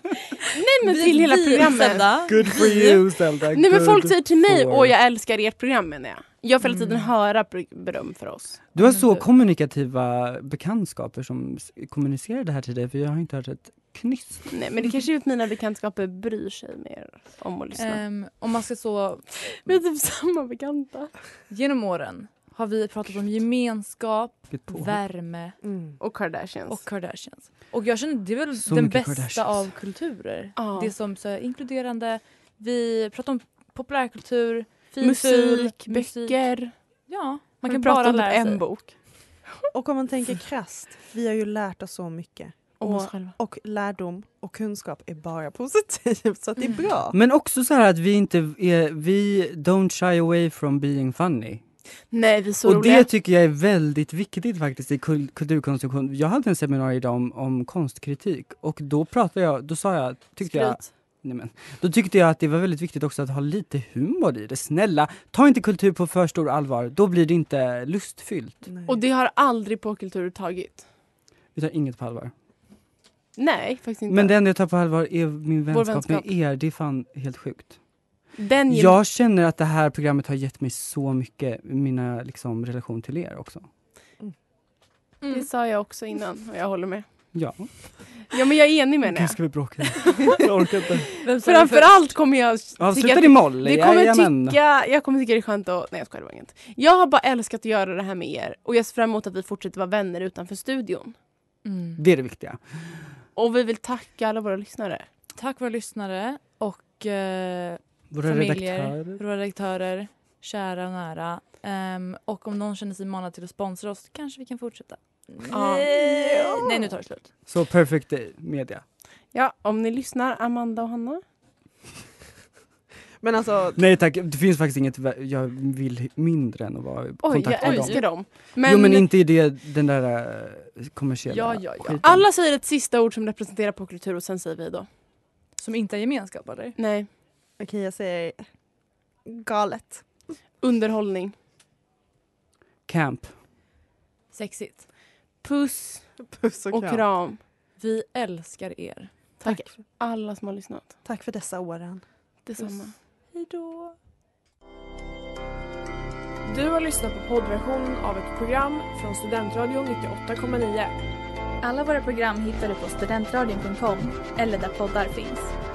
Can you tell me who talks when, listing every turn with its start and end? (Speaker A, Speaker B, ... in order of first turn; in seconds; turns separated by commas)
Speaker A: 0.5-8.6, Speaker B: 0.8-2.5, Speaker C: 2.1-4.9, Speaker B: 6.6-7.1, Speaker C: 8.7-14.5, Speaker B: 8.8-9.2, Speaker A: 14.5-18.0, Speaker B: 17.8-19.5, Speaker A: 19.4-21.1, Speaker B: 21.5-25.6, Speaker C: 24.5-25.0, Speaker D: 25.6-26.0, Speaker A: 26.0-26.9, Speaker B: 26.7-36.4, Speaker C: 28.6-29.7, Speaker A: 30.6-30.9, Speaker A: 35.0-36.7, Speaker B: 37.1-38.6, Speaker A: 37.6-39.0, Speaker D: 39.7-47.2, Speaker A: 42.8-43.4, Speaker C: 47.1-51.6, Speaker A: 52.1-53.1, Speaker C: 52.6-68.6, Speaker A: 60.4-60.9, Speaker D: 68.7-69.0, Speaker A: 68.9-70.9, Speaker C: 71.5-72.3, Speaker A: 73.4-74.3, Speaker C: 74.1-77.8, Speaker A: 75.7-76.3, Speaker A: 78.4-79.0, Speaker C: 78.7-83.7, Speaker B: 85.2-85.5, Speaker A: 85.3-87.1, Speaker C: 87.3-88.1, Speaker A: 88.3-90.1, Speaker C: 89.0-91.1, Speaker B: 91.2-92.0, Speaker A: 91.3-101.2, Speaker C: 92.8-94.6, Speaker B: 101.7-102.0, Speaker C: 102.0-102.6, Speaker A: 103.4-105.1, Speaker B: 105.4-117.3, Speaker C: 108.1-109.2, Speaker A: 115.5-115.9, Speaker D: 115.9-116.9, Speaker C: 117.5-118.8, Speaker A: 119.3-121.2, Speaker D: 123.2-123.8, Speaker C: 123.8-132.3, Speaker A: 127.2-129.1, Speaker B: 127.6-128.0, Speaker B: 131.3-132.0, Speaker A: 132.0-134.9, Speaker B: 135.6-136.8, Speaker A: 136.8-137.1, Speaker D: 137.6-138.4, Speaker D: 139.3-140.1, Speaker A: 140.6-141.3, Speaker C: 142.9-143.3, Speaker B: 144.3-144.9, Speaker A: 145.4-146.2, Speaker D: 146.3-147.1, Speaker A: 146.7-147.4, Speaker B: 147.8-149.1, Speaker A: 149.4-150.8, Speaker D: 151.1-152.0, Speaker A: 152.4-153.0, Speaker B: 153.3-154.0, Speaker E: 156.4-160.9, Speaker F: 161.6-165.5